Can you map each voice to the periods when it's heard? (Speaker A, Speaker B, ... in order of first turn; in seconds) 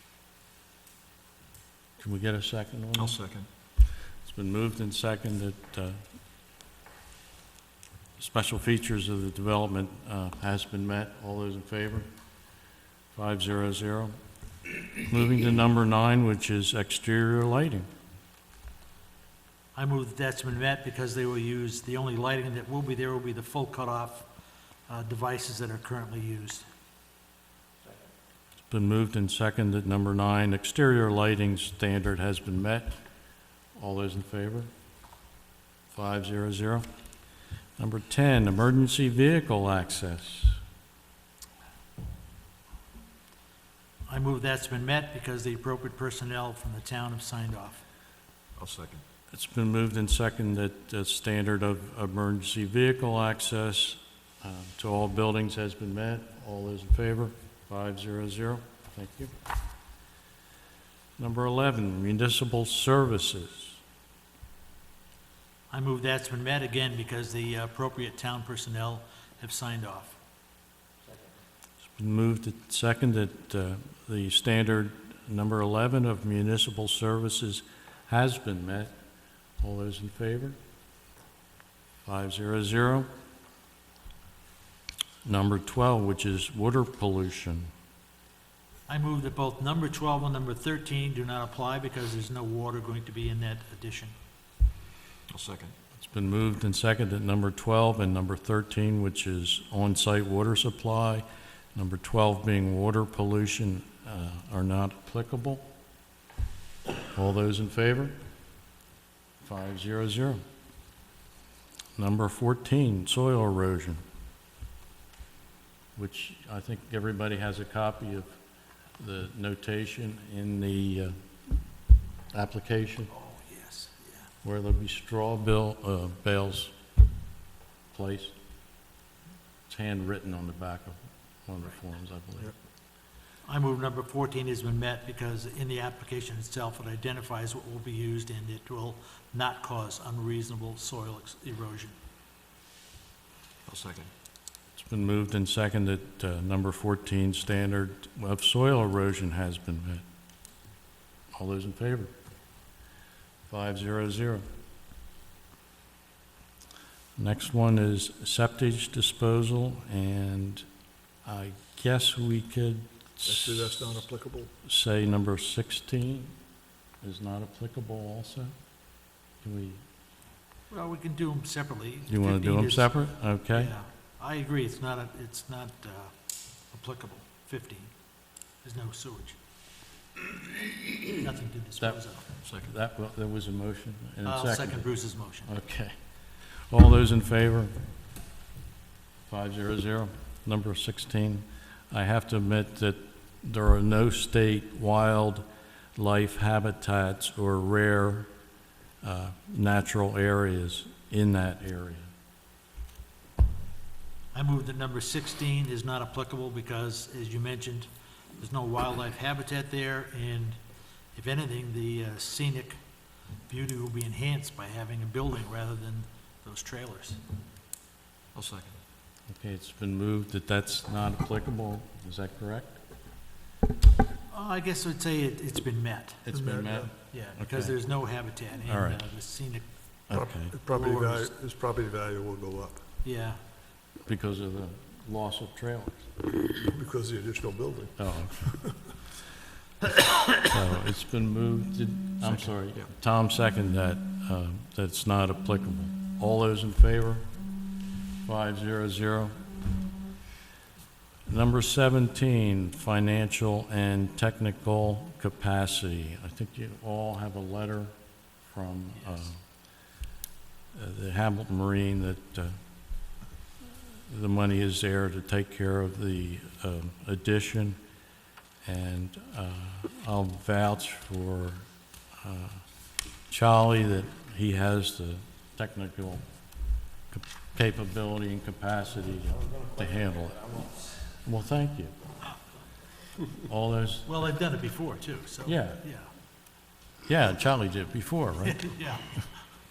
Speaker A: 2.0-3.2, 4.2-6.0, 8.2-12.1, 13.1-14.1, 14.7-17.9, 28.6-33.0, 33.7-34.7, 35.9-36.9, 37.8-40.6, 49.3-59.3, 61.2-63.8, 72.0-78.9, 79.6-80.6, 82.0-83.1, 85.2-87.7, 95.9-105.6, 107.1-108.2, 109.4-110.4, 112.0-114.0, 116.0-118.3, 119.0-121.6, 122.3-123.1, 124.4-126.7, 127.9-128.3, 129.7-132.5, 144.8-150.0, 151.3-152.1, 153.5-154.4, 157.2-160.7, 161.2-163.8, 164.6-166.3, 167.0-168.5, 169.4-169.8, 172.1-173.7, 181.8-184.9, 185.4-185.9, 186.5-187.7, 189.3-195.4, 195.9-198.3, 199.0-202.1, 219.3-222.8, 226.2-227.8, 228.6-229.0, 230.1-230.6, 234.1-236.1, 238.0-238.6, 240.3-247.2, 248.2-249.3, 251.3-257.9, 258.4-259.4, 260.7-262.6, 264.1-267.8, 268.6-271.6, 272.2-272.6, 273.3-276.2, 277.1-280.6, 281.2-281.9, 283.4-284.1, 285.4-285.8, 287.0-289.2
Speaker B: 2.9-3.5, 48.6-49.0, 95.3-95.7, 143.7-144.1, 218.3-218.8, 242.2-242.9
Speaker C: 19.7-24.2, 24.9-26.6, 44.1-47.8, 65.7-70.2, 88.9-94.1, 123.1-124.3, 133.4-141.9, 170.7-172.9, 173.5-176.1, 176.7-177.9, 178.6-179.4, 181.1-182.2, 184.2-185.5, 204.3-210.6, 211.1-212.8, 213.5-217.2, 224.3-226.3, 227.1-229.7, 230.7-231.3, 233.0-233.4, 284.1-286.1, 288.4-289.2
Speaker D: 163.2-164.5, 226.3-226.9, 230.1-232.8, 236.5-238.7